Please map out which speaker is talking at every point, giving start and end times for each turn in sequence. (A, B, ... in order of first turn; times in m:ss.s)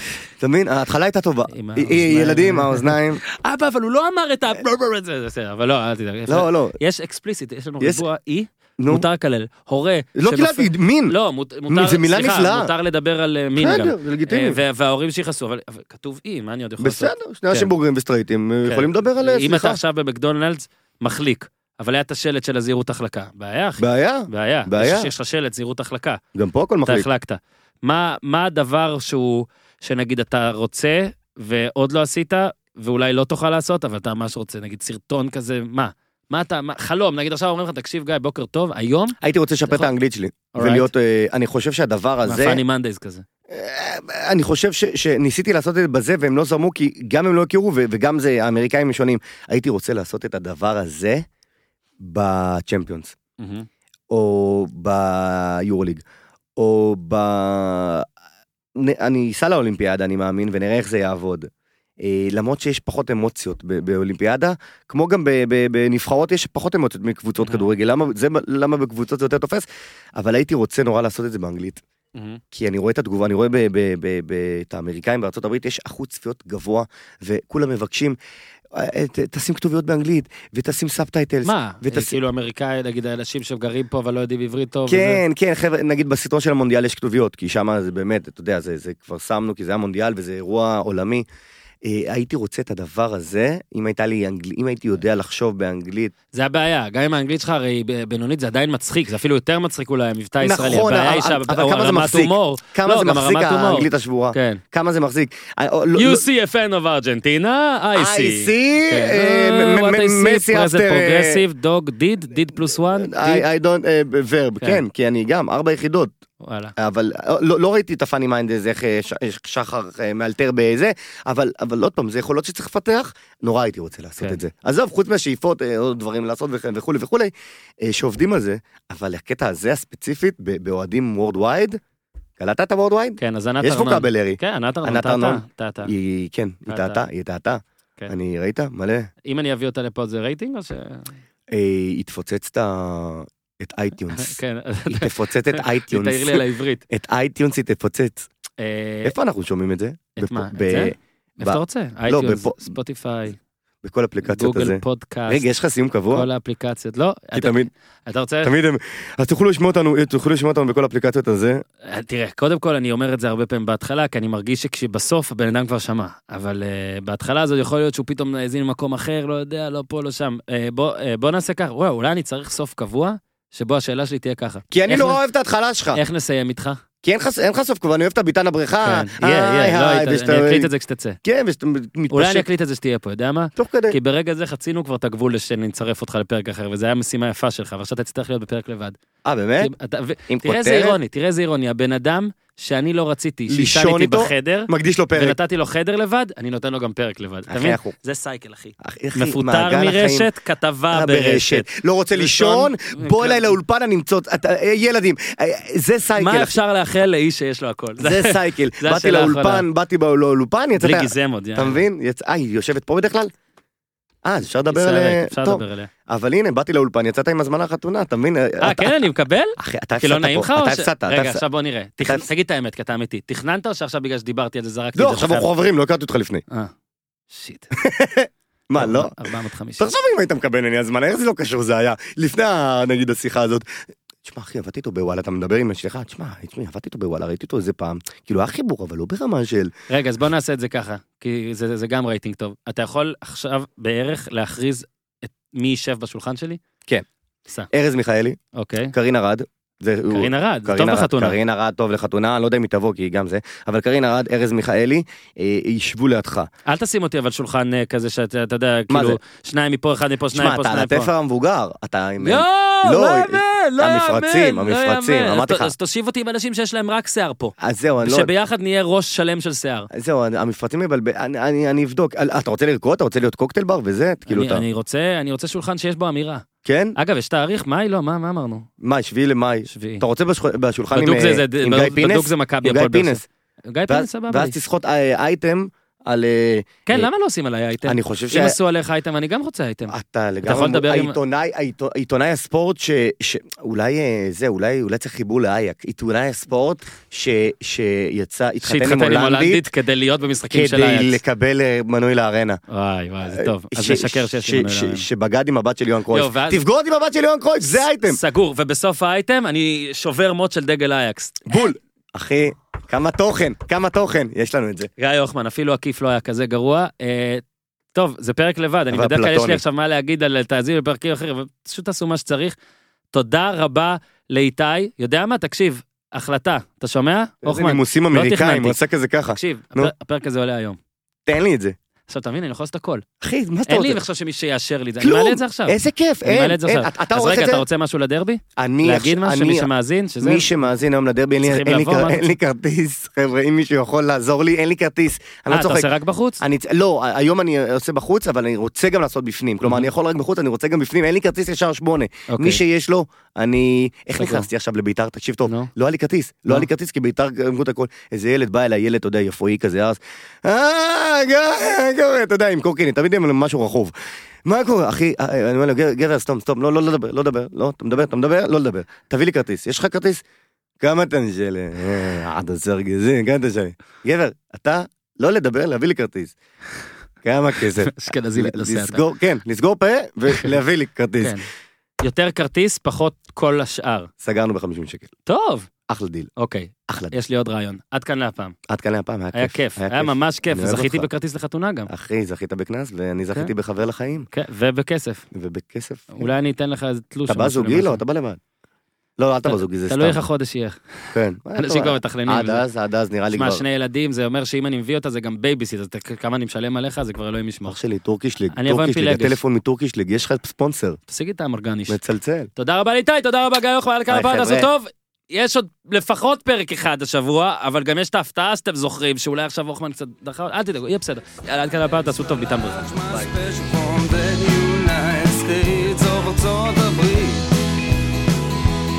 0:00.4-0:03.2 A
0:01.5-0:17.7 B
0:06.3-0:06.8 A
0:07.8-0:08.0 A
0:08.8-0:09.1 A
0:10.2-0:11.2 A
0:11.7-0:12.7 A
0:13.6-0:14.6 A
0:16.8-0:19.8 A
0:18.6-0:26.2 B
0:23.8-0:25.1 A
0:26.4-0:27.1 A
0:26.9-0:39.2 B
0:39.2-0:42.6 A
0:40.5-0:40.9 B
0:42.2-0:43.2 B
0:43.5-0:51.2 A
0:52.0-0:53.2 A
0:53.4-0:53.7 B
0:54.1-0:56.0 A
0:56.6-0:58.1 A
0:58.8-1:01.5 A
1:02.0-1:11.8 A
1:07.4-1:07.7 B
1:12.2-1:12.4 B
1:12.5-1:18.2 A
1:18.7-1:22.2 A
1:21.4-1:25.2 B
1:24.9-1:31.2 A
1:31.8-1:36.1 A
1:36.3-1:44.6 B
1:40.4-1:46.2 A
1:45.9-1:53.5 B
1:48.0-1:51.4 A
1:52.7-1:56.1 A
1:56.4-1:56.7 B
1:56.8-2:11.8 A
2:12.4-2:19.1 A
2:13.2-2:15.9 B
2:16.7-2:17.0 B
2:19.3-2:21.2 B
2:21.5-2:24.4 A
2:24.1-2:26.8 B
2:24.9-2:28.3 A
2:28.6-2:29.2 B
2:29.0-2:32.7 A
2:30.2-2:33.4 B
2:33.8-2:36.3 A
2:34.2-2:35.4 B
2:36.1-2:38.5 B
2:37.3-2:37.7 A
2:38.4-2:41.6 A
2:41.8-2:55.2 B
2:54.7-2:56.0 A
2:55.9-2:56.8 B
2:57.0-3:00.7 A
2:58.8-3:01.2 B
3:01.2-3:02.5 A
3:02.1-3:09.0 B
3:03.6-3:04.0 A
3:09.2-3:09.7 A
3:09.6-3:23.6 B
3:10.3-3:11.0 A
3:13.5-3:15.4 A
3:17.5-3:17.9 A
3:18.8-3:20.3 A
3:20.9-3:26.6 A
3:26.2-3:29.7 B
3:28.0-3:33.3 A
3:30.8-3:31.8 B
3:34.2-3:39.0 A
3:34.7-3:35.9 B
3:38.6-3:45.5 B
3:39.6-3:41.4 A
3:42.0-3:42.3 A
3:45.0-3:46.4 A
3:47.3-3:47.7 B
3:47.7-3:49.2 A
3:48.8-3:49.9 B
3:49.8-3:53.7 A
3:54.2-3:59.7 A
3:59.9-4:06.6 B
4:07.7-4:08.4 A
4:08.5-4:08.9 B
4:08.9-4:16.5 A
4:10.1-4:11.4 B
4:16.7-4:21.1 B
4:18.9-4:19.2 A
4:20.3-4:25.7 A
4:22.2-4:29.9 B
4:27.6-4:28.3 A
4:29.9-4:34.6 A
4:34.3-4:36.4 B
4:36.6-4:37.0 A
4:37.0-4:38.7 B
4:38.8-4:43.2 A
4:39.7-4:40.0 B
4:40.9-4:44.6 B
4:43.9-4:47.1 A
4:46.9-4:51.2 B
4:47.8-4:48.6 A
4:49.9-4:59.7 A
4:58.6-5:01.2 B
5:00.5-5:02.6 A
5:02.7-5:05.0 B
5:03.3-5:08.2 A
5:06.1-5:06.6 B
5:08.1-5:11.4 B
5:11.5-5:14.9 A
5:15.0-5:22.6 B
5:18.9-5:19.6 A
5:23.1-5:28.8 B
5:27.4-5:29.9 A
5:29.3-5:30.8 B
5:31.3-5:31.8 A
5:32.1-5:33.0 B
5:33.2-5:34.0 A
5:33.7-5:40.5 B
5:35.0-5:37.6 A
5:38.6-5:39.7 A
5:40.2-5:45.9 A
5:41.4-5:42.3 B
5:45.5-5:46.4 B
5:46.4-6:10.2 A
5:49.6-5:49.9 B
5:52.3-5:52.6 B
5:54.2-5:54.5 B
6:10.8-6:16.4 A
6:17.2-6:21.4 A
6:17.8-6:19.1 B
6:21.2-6:21.5 B
6:22.0-6:24.1 B
6:24.2-6:25.1 A
6:25.3-6:25.7 B
6:25.9-6:26.3 A
6:26.4-6:28.6 B
6:26.9-6:27.1 A
6:28.7-6:31.1 A
6:29.3-6:31.9 B
6:31.9-6:34.3 A
6:34.3-6:35.3 B
6:35.3-6:36.3 A
6:36.1-6:38.0 B
6:37.3-6:38.4 A
6:39.2-6:40.2 A
6:39.4-6:42.6 B
6:41.1-6:43.6 A
6:43.3-6:47.8 B
6:47.6-6:51.0 A
6:48.5-6:49.4 B
6:51.1-6:52.0 B
6:51.9-6:52.5 A
6:52.6-7:02.9 B
6:54.1-6:54.7 A
7:02.3-7:07.5 C